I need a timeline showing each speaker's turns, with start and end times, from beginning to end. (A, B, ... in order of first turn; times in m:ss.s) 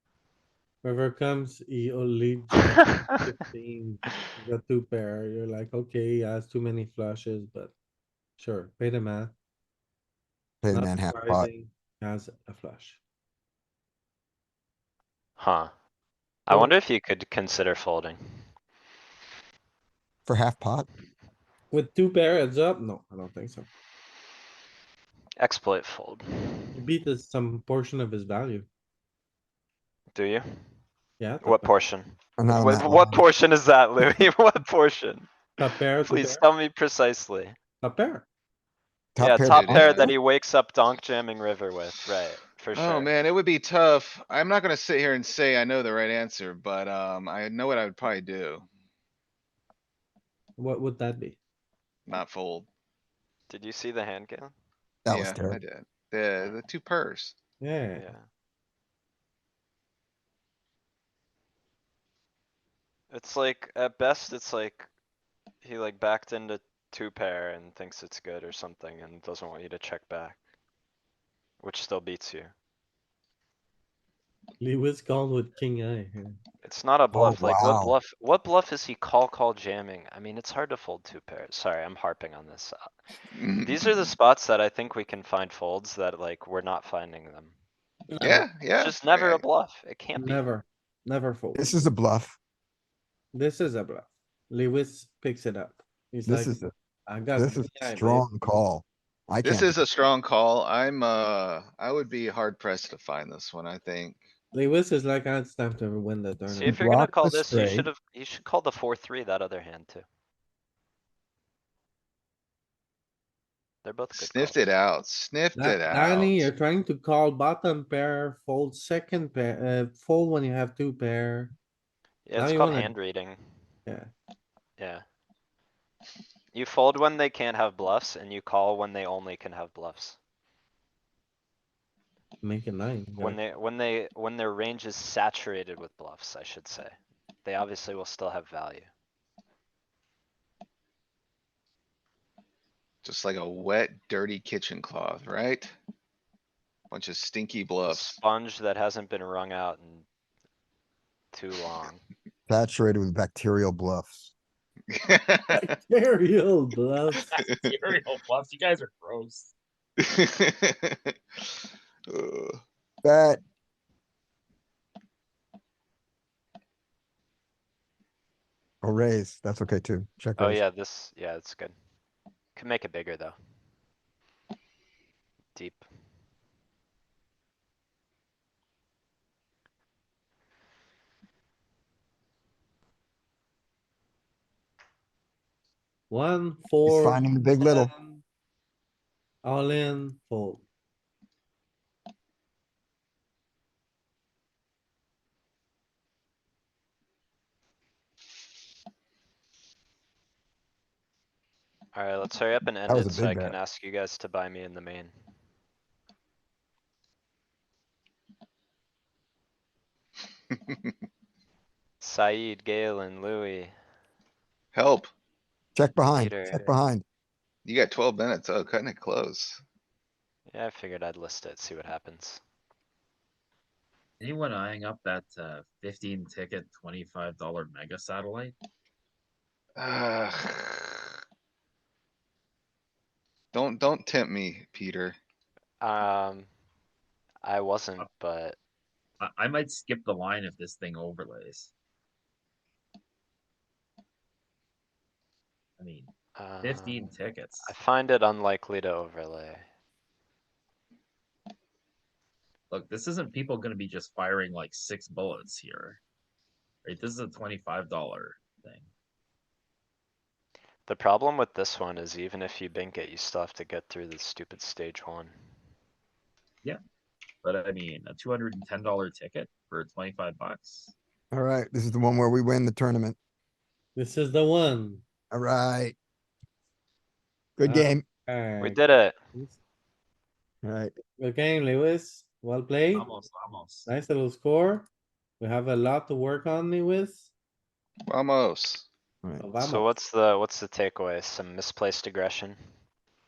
0:00.8-0:07.7 A
0:08.4-0:09.4 A
0:10.6-0:11.5 B
0:10.7-0:13.0 A
0:15.4-0:15.7 C
0:16.5-0:18.2 C
0:16.5-0:16.7 A
0:20.3-0:20.9 B
0:21.7-0:23.7 A
0:25.4-0:26.8 C
0:26.7-0:28.7 A
0:30.1-0:30.4 C
0:31.2-0:31.7 A
0:31.4-0:35.3 C
0:32.4-0:33.2 B
0:35.6-0:36.4 A
0:36.0-0:37.6 C
0:37.8-0:38.3 A
0:39.2-0:40.1 B
0:39.2-0:43.1 C
0:42.8-0:48.7 D
0:50.6-0:51.4 A
0:52.1-0:52.7 D
0:53.5-0:54.5 C
0:55.0-0:55.6 B
0:55.1-0:57.4 D
0:57.6-0:58.1 A
0:58.0-0:58.3 C
1:03.1-1:04.9 C
1:05.6-1:10.4 C
1:11.6-1:12.5 C
1:14.6-1:16.4 A
1:16.6-1:22.9 C
1:17.1-1:18.0 B
1:23.3-1:23.9 D
1:23.6-1:27.5 C
1:28.1-1:28.5 A
1:28.2-1:29.4 D
1:28.8-1:30.4 C
1:30.2-1:31.9 A
1:31.6-1:32.4 B
1:33.3-1:38.3 A
1:36.3-1:36.7 B
1:37.3-1:39.7 B
1:39.4-1:44.2 D
1:44.5-1:46.8 A
1:46.5-1:50.0 C
1:46.6-1:47.9 B
1:53.8-1:54.7 C
1:54.1-1:56.5 D
1:55.6-2:01.5 A
2:02.3-2:03.4 C
2:02.4-2:02.9 A
2:03.9-2:04.1 A
2:04.8-2:05.0 C
2:06.5-2:10.2 C
2:12.4-2:13.4 A
2:13.2-2:18.9 C
2:23.0-2:25.8 D
2:26.9-2:28.2 D
2:27.8-2:30.1 C
2:31.3-2:32.0 C
2:32.5-2:34.3 B
2:34.9-2:35.7 D
2:35.5-2:37.3 A
2:37.1-2:39.5 E
2:40.0-2:41.4 D
2:42.1-2:42.6 D
2:43.0-2:43.4 B
2:48.8-2:50.6 B
2:50.4-2:51.8 C
2:52.5-2:53.4 C
2:55.6-2:55.8 C
3:06.1-3:08.2 A
3:06.8-3:07.9 B
3:09.4-3:10.6 A
3:21.9-3:25.1 C
3:22.9-3:23.6 B
3:32.0-3:33.7 C
3:34.7-3:35.1 D
3:35.8-3:37.0 B
3:36.1-3:36.8 C
3:37.6-3:39.6 D
3:40.5-3:42.4 C
3:44.2-3:48.6 E
3:49.8-3:51.1 D
3:53.5-3:55.2 D
3:55.8-3:56.5 C
3:57.4-3:58.6 C
3:59.2-4:01.7 E
4:05.8-4:07.7 E
4:06.4-4:07.1 C
4:07.6-4:09.6 C
4:12.7-4:16.0 E
4:16.8-4:18.9 E
4:20.9-4:25.3 C
4:27.4-4:30.9 E
4:31.3-4:33.2 B
4:34.0-4:35.0 A
4:35.3-4:36.0 B
4:37.6-4:38.0 B
4:37.6-4:39.6 A
4:38.6-4:39.2 C
4:40.6-4:40.9 B
4:41.2-4:43.1 A
4:42.9-4:43.9 E
4:43.9-4:44.9 A
4:45.4-4:47.3 A
4:48.1-4:48.9 D
4:49.2-4:49.5 B
4:49.4-4:49.9 A
4:49.6-4:52.6 C